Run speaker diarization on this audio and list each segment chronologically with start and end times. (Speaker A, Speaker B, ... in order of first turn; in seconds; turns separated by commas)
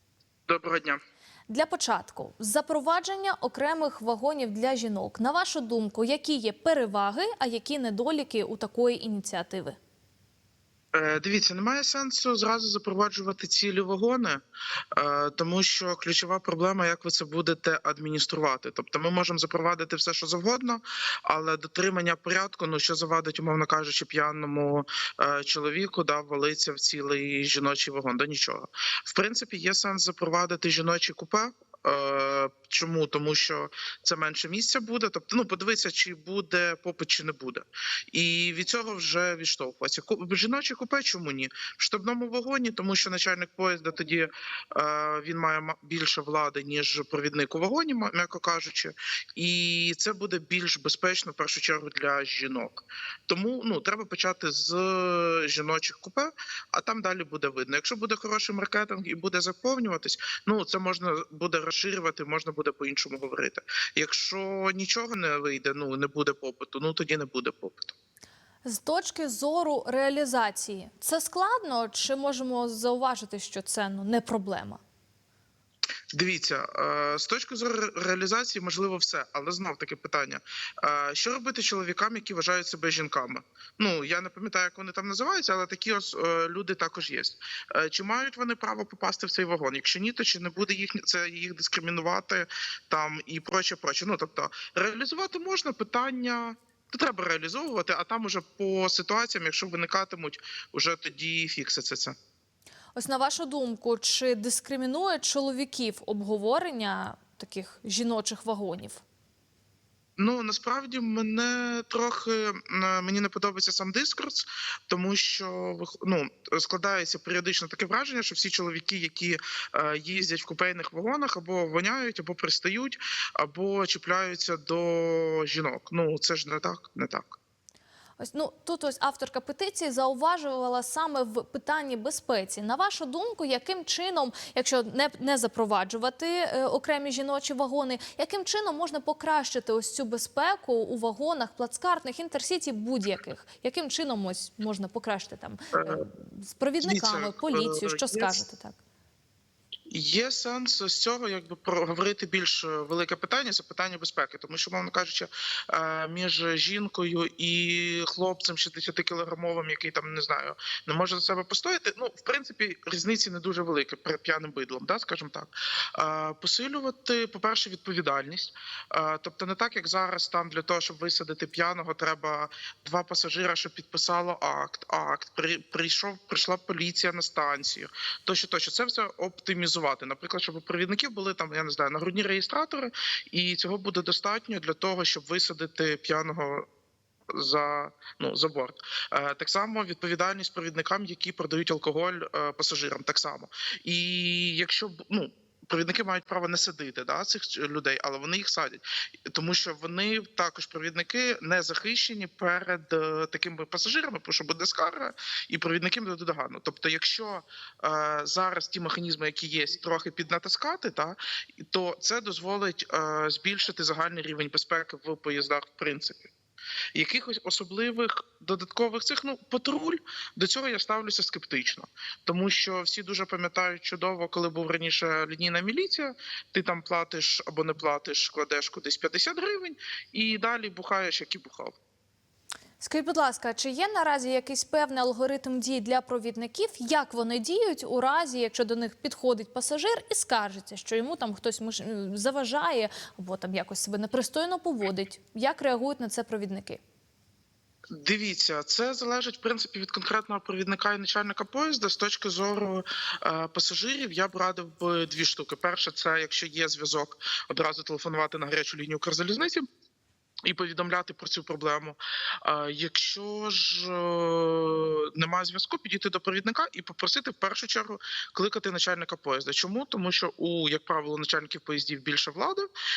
Speaker A: 0.5-1.0, Speaker B: 1.5-9.8, Speaker A: 10.9-14.4, Speaker A: 14.9-68.0, Speaker B: 68.7-74.8, Speaker A: 76.1-102.2, Speaker B: 103.0-109.0, Speaker A: 110.2-127.4, Speaker B: 128.2-148.8, Speaker A: 145.7-146.0, Speaker A: 146.8-148.4, Speaker A: 149.9-186.7, Speaker A: 187.3-216.3, Speaker A: 216.9-231.8, Speaker B: 232.8-246.8, Speaker A: 248.0-259.6, Speaker A: 260.5-272.7